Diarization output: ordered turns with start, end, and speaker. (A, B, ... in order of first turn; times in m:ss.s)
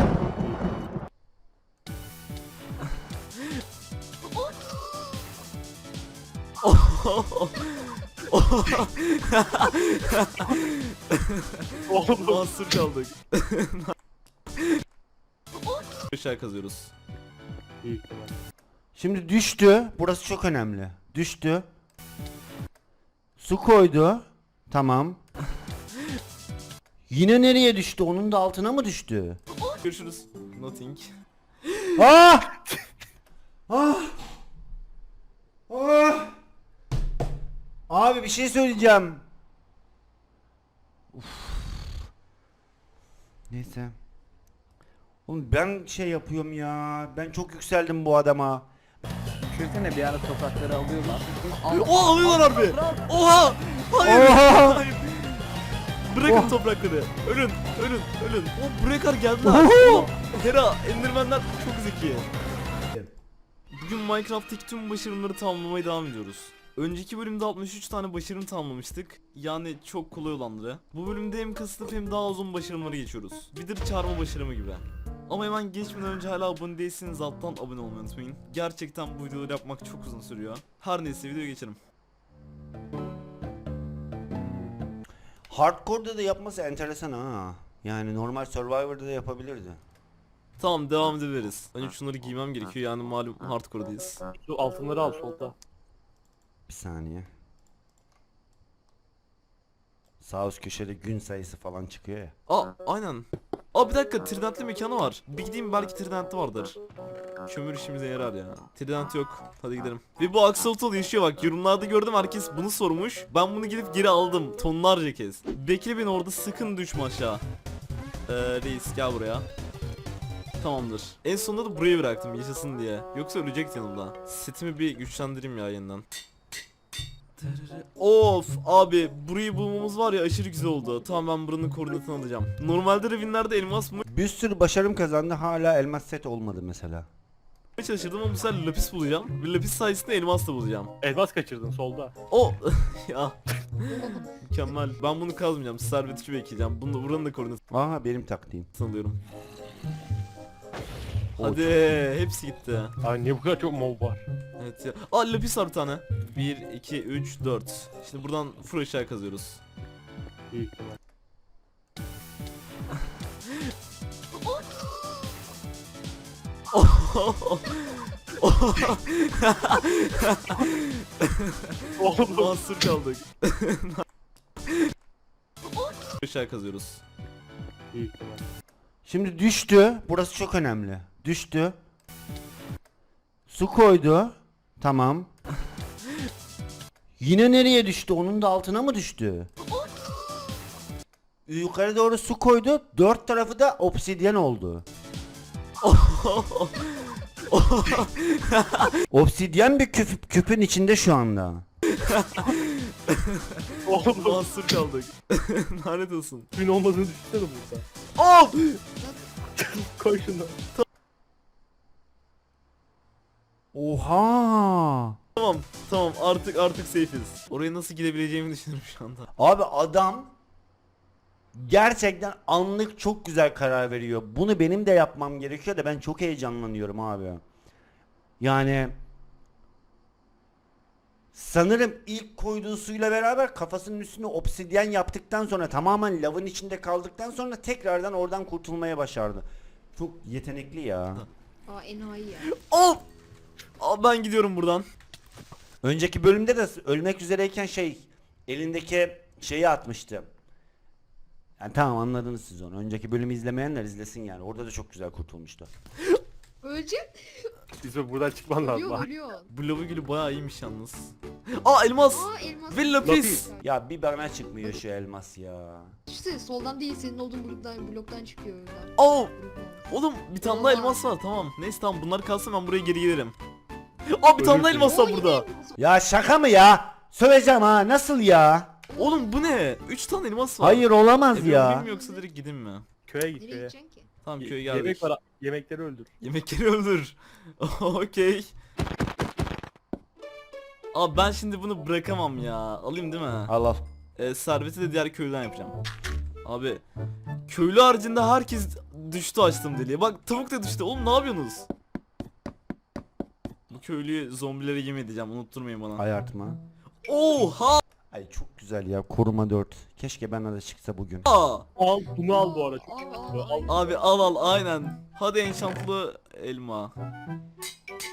0:00.3-0:00.8 A
0:06.6-0:13.9 B
0:11.9-0:12.4 A
0:16.1-0:16.9 B
0:17.8-0:18.4 A
0:19.0-0:21.7 C
0:23.4-0:25.2 C
0:27.1-0:29.4 C
0:29.7-0:31.1 B
0:31.7-0:32.0 B
0:32.0-0:32.6 C
0:33.7-0:34.2 C
0:35.7-0:36.4 C
0:37.9-0:39.2 C
0:41.1-0:42.1 C
0:43.5-0:44.0 C
0:45.3-0:48.7 C
0:49.5-0:53.1 D
0:51.6-0:55.5 B
0:54.0-0:54.8 C
0:56.1-1:02.3 B
0:56.2-0:56.6 C
0:59.4-1:00.1 C
1:03.7-1:21.8 B
1:25.5-1:29.8 C
1:30.6-1:34.2 B
1:34.4-1:35.6 A
1:36.7-1:37.3 C
1:40.2-1:42.4 C
1:42.5-1:46.8 B
1:47.5-1:57.4 B
1:58.3-1:59.5 B
2:00.6-2:06.0 B
2:07.4-2:14.0 B
2:14.1-2:17.1 C
2:17.8-2:20.9 B
2:21.0-2:22.1 A
2:22.3-2:27.6 B
2:23.9-2:24.4 E
2:27.7-2:28.7 C
2:28.8-2:29.2 B
2:31.4-2:33.0 B
2:31.4-2:31.8 C
2:33.0-2:34.2 A
2:34.6-2:39.6 B
2:40.5-2:41.0 A
2:46.7-2:54.0 B
2:52.0-2:52.6 A
2:56.2-2:57.0 B
2:57.9-2:58.5 A
2:59.0-3:01.8 C
3:03.5-3:05.3 C
3:07.2-3:09.5 C
3:11.5-3:14.9 C
3:15.8-3:19.0 B
3:19.1-3:21.6 C
3:21.9-3:26.5 B
3:23.8-3:24.4 A
3:26.6-3:27.9 A
3:28.2-3:28.8 B
3:29.6-3:30.6 A
3:33.7-3:35.2 C
3:35.4-3:39.3 B
3:39.4-3:40.3 C
3:41.5-3:47.4 C
3:48.4-3:49.0 C
3:51.3-4:01.3 C
4:01.7-4:02.5 E
4:02.4-4:03.0 B
4:03.8-4:04.9 B
4:05.8-4:10.3 C
4:11.6-4:15.7 C
4:16.6-4:17.5 E
4:17.8-4:19.1 A
4:18.6-4:19.5 E
4:19.5-4:23.5 B
4:22.1-4:23.7 E
4:23.0-4:23.5 A
4:23.6-4:26.0 C
4:26.1-4:31.2 E
4:29.0-4:29.3 B
4:29.9-4:33.4 B
4:34.1-4:35.5 B
4:34.4-4:35.1 A
4:34.8-4:35.8 E
4:35.8-4:38.8 C
4:38.9-4:39.6 E
4:39.0-4:42.9 B
4:40.6-4:41.9 C
4:41.6-4:42.3 E
4:43.1-4:43.7 A
4:43.4-4:44.1 E
4:44.2-4:45.1 B
4:44.4-4:46.1 A
4:46.2-4:48.5 B
4:50.9-4:53.5 B
4:53.5-4:53.9 C
4:54.2-4:55.8 B
4:56.4-4:56.8 B
4:57.5-5:01.7 B
5:03.7-5:06.0 B
5:06.0-5:06.6 C
5:07.1-5:07.8 B
5:08.1-5:11.3 C
5:11.2-5:11.7 B
5:11.8-5:13.8 A
5:12.4-5:14.6 E
5:13.7-5:16.9 B